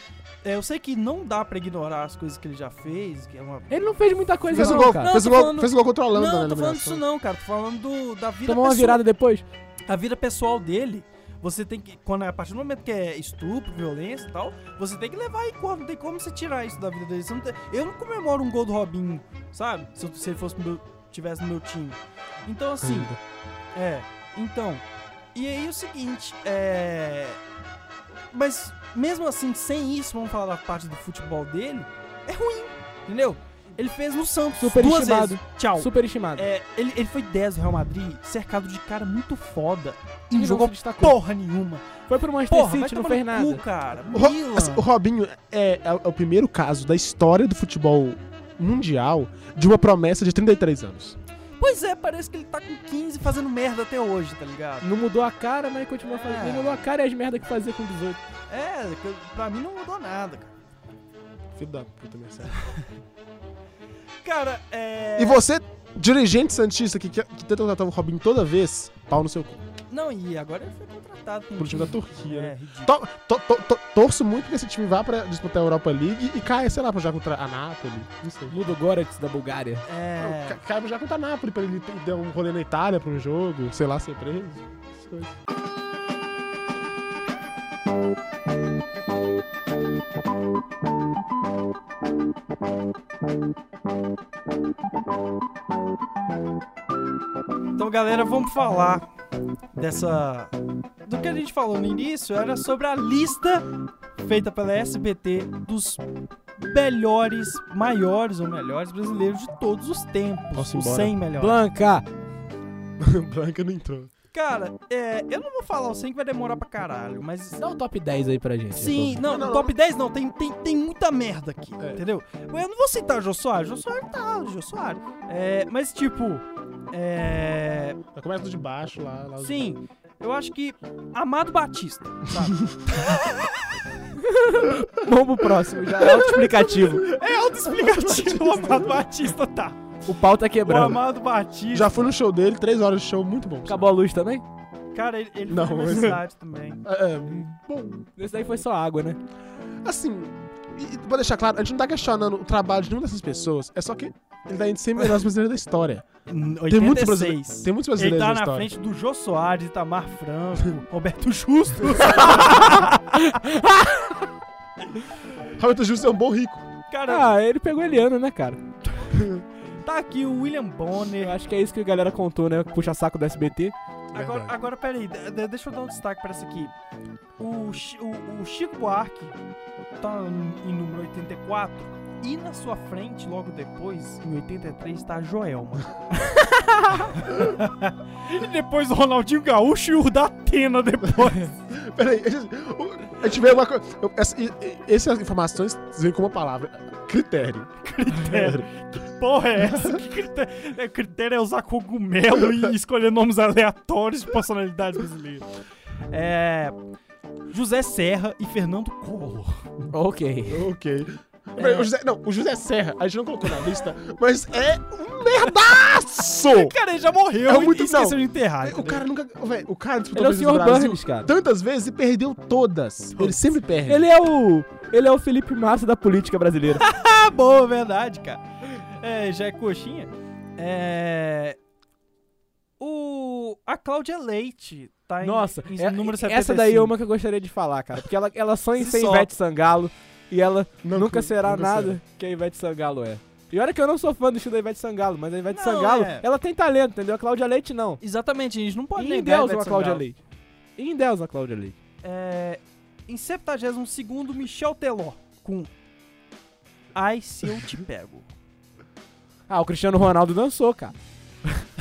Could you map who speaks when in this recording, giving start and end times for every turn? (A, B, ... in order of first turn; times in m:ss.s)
0:00.4-0:03.7 A
0:03.7-0:05.1 B
0:04.4-0:09.0 A
0:04.5-0:07.0 C
0:08.5-0:09.4 B
0:09.9-0:23.2 A
0:22.8-0:23.2 C
0:23.8-0:27.4 A
0:28.3-0:41.9 A
0:34.6-0:36.4 B
0:40.3-0:41.2 B
0:42.1-0:43.6 B
0:42.5-0:44.8 A
0:44.1-0:51.2 C
0:51.6-0:54.9 A
0:54.8-0:58.2 B
0:56.0-0:56.8 A
0:58.5-1:00.5 A
1:01.6-1:02.6 C
1:04.2-1:05.4 A
1:05.2-1:09.6 C
1:09.9-1:13.0 A
1:11.6-1:18.6 C
1:18.5-1:19.8 B
1:19.9-1:20.6 A
1:20.2-1:25.3 C
1:37.8-1:39.1 A
1:39.7-1:40.5 A
1:41.0-1:43.7 A
1:44.2-1:46.0 A
1:46.6-1:51.6 A
1:50.6-1:51.2 C
1:51.4-1:52.0 B
1:53.0-1:54.1 C
1:54.3-1:57.6 A
1:57.6-1:59.2 B
1:58.7-2:08.0 A
1:59.2-1:59.7 C
2:08.2-2:09.7 C
2:09.4-2:13.6 A
2:14.2-2:17.1 B
2:16.0-2:19.9 A
2:17.6-2:19.0 C
2:20.1-2:21.0 B
2:20.6-2:22.1 A
2:21.7-2:23.9 C
2:23.7-2:24.4 B
2:24.9-2:26.8 A
2:25.5-2:26.2 C
2:26.8-2:28.1 C
2:28.2-2:29.2 B
2:29.8-2:36.0 C
2:36.3-2:43.2 A
2:36.7-2:38.7 C
2:42.0-2:44.3 B
2:45.6-2:46.7 C
2:46.9-2:47.3 A
2:47.1-2:48.6 B
2:49.1-2:49.4 C
2:49.8-2:51.4 A
2:51.2-2:53.7 B
2:54.1-2:54.6 C
2:54.1-2:56.7 A
2:57.4-2:59.4 A
3:00.0-3:06.4 A
3:06.6-3:07.0 B
3:07.0-3:11.6 A
3:11.7-3:18.7 C
3:17.8-3:25.5 A
3:26.1-3:26.8 A
3:27.5-3:29.7 A
3:29.9-3:30.7 B
3:30.5-3:36.7 C
3:31.6-3:31.9 A
3:36.5-3:39.0 A
3:37.4-3:44.1 C
3:40.1-3:41.3 B
3:43.2-3:43.6 A
3:43.9-3:46.8 B
3:46.8-3:51.6 A
3:52.8-3:56.9 A
3:55.2-4:08.0 B
3:58.8-3:59.3 A
4:00.8-4:02.0 C
4:05.5-4:06.3 A
4:08.0-4:10.0 A
4:09.0-4:10.2 B
4:10.8-4:11.8 B
4:12.0-4:15.7 A
4:16.9-4:18.3 A
4:19.5-4:21.0 B